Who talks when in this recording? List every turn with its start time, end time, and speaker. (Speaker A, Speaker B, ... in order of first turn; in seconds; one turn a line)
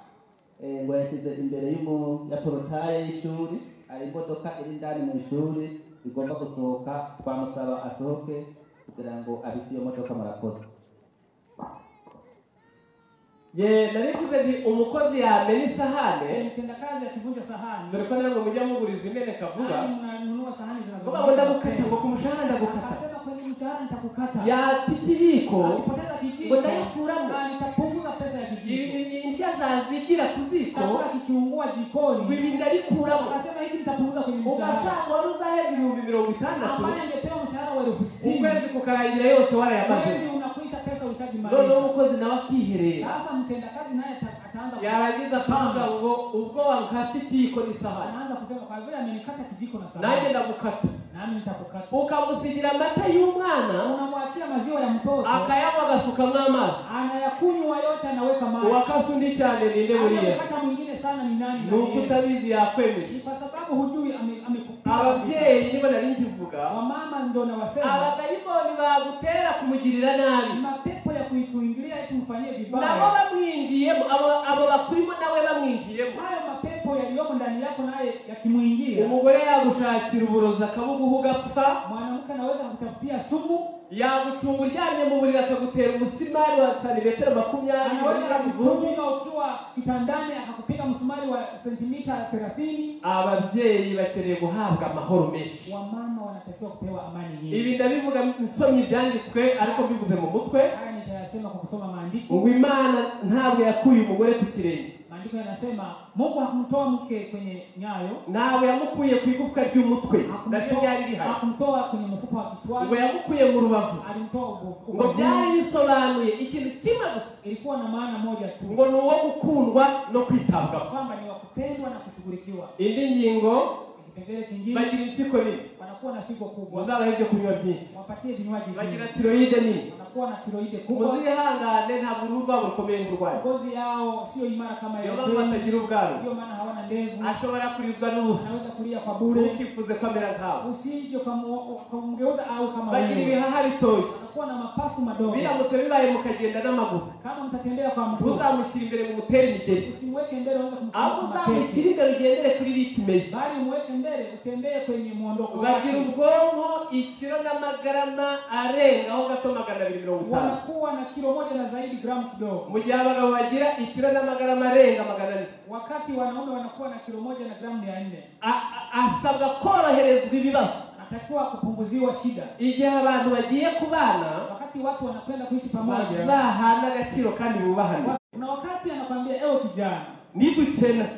Speaker A: 0.6-10.6
Speaker B: 13.5-16.4
Speaker C: 16.3-18.0
Speaker B: 17.9-19.9
Speaker C: 19.6-22.0
Speaker B: 21.0-23.0
Speaker C: 22.6-24.5
Speaker B: 24.4-25.8
Speaker C: 25.6-29.0
Speaker B: 26.4-27.4
Speaker B: 28.6-31.0
Speaker C: 30.7-32.4
Speaker B: 32.2-33.4
Speaker C: 33.0-34.9
Speaker B: 34.4-37.0
Speaker C: 36.6-38.6
Speaker B: 38.2-40.2
Speaker C: 39.8-41.9
Speaker B: 41.4-43.1
Speaker C: 43.0-45.9
Speaker B: 44.8-48.1
Speaker C: 48.0-50.3
Speaker B: 50.0-51.0
Speaker C: 51.1-51.9
Speaker B: 51.9-53.9
Speaker C: 53.8-55.5
Speaker B: 55.2-56.8
Speaker C: 56.8-58.9
Speaker B: 58.6-60.4
Speaker C: 59.9-62.2
Speaker B: 61.6-63.1
Speaker C: 63.0-65.5
Speaker B: 64.8-66.7
Speaker C: 66.7-68.1
Speaker B: 67.8-70.6
Speaker C: 70.5-73.1
Speaker B: 72.7-76.2
Speaker C: 76.1-79.1
Speaker B: 78.9-81.8
Speaker C: 81.8-83.7
Speaker B: 83.9-89.0
Speaker C: 87.8-92.9
Speaker B: 93.0-95.7
Speaker C: 95.7-97.7
Speaker B: 97.5-100.7
Speaker C: 99.6-99.8
Speaker C: 100.7-102.5
Speaker B: 102.3-104.9
Speaker C: 105.1-108.2
Speaker B: 108.2-111.4
Speaker C: 110.3-113.1
Speaker B: 112.8-114.0
Speaker C: 114.0-115.5
Speaker B: 114.9-117.3
Speaker C: 117.4-118.8
Speaker B: 118.7-120.9
Speaker C: 120.9-122.7
Speaker B: 122.8-123.7
Speaker C: 124.0-124.9
Speaker B: 124.7-125.6
Speaker C: 125.8-126.9
Speaker B: 126.7-127.9
Speaker C: 127.9-129.1
Speaker B: 128.7-129.8
Speaker C: 129.9-131.2
Speaker B: 130.9-133.4
Speaker C: 133.3-137.3
Speaker B: 135.0-136.2
Speaker B: 137.2-138.5
Speaker C: 138.3-139.6
Speaker B: 139.2-140.6
Speaker C: 140.6-143.4
Speaker B: 142.9-144.1
Speaker C: 144.1-145.5
Speaker B: 145.3-147.1
Speaker C: 147.2-148.4
Speaker B: 148.1-149.8
Speaker C: 149.8-151.9
Speaker B: 150.9-153.3
Speaker C: 153.3-156.1
Speaker B: 155.5-160.6
Speaker C: 160.2-162.7
Speaker B: 162.7-165.5
Speaker C: 165.6-168.3
Speaker B: 168.4-170.8
Speaker C: 170.9-172.5
Speaker B: 172.6-174.5
Speaker C: 174.5-176.4
Speaker B: 175.8-178.2
Speaker C: 178.0-180.2
Speaker B: 180.3-181.1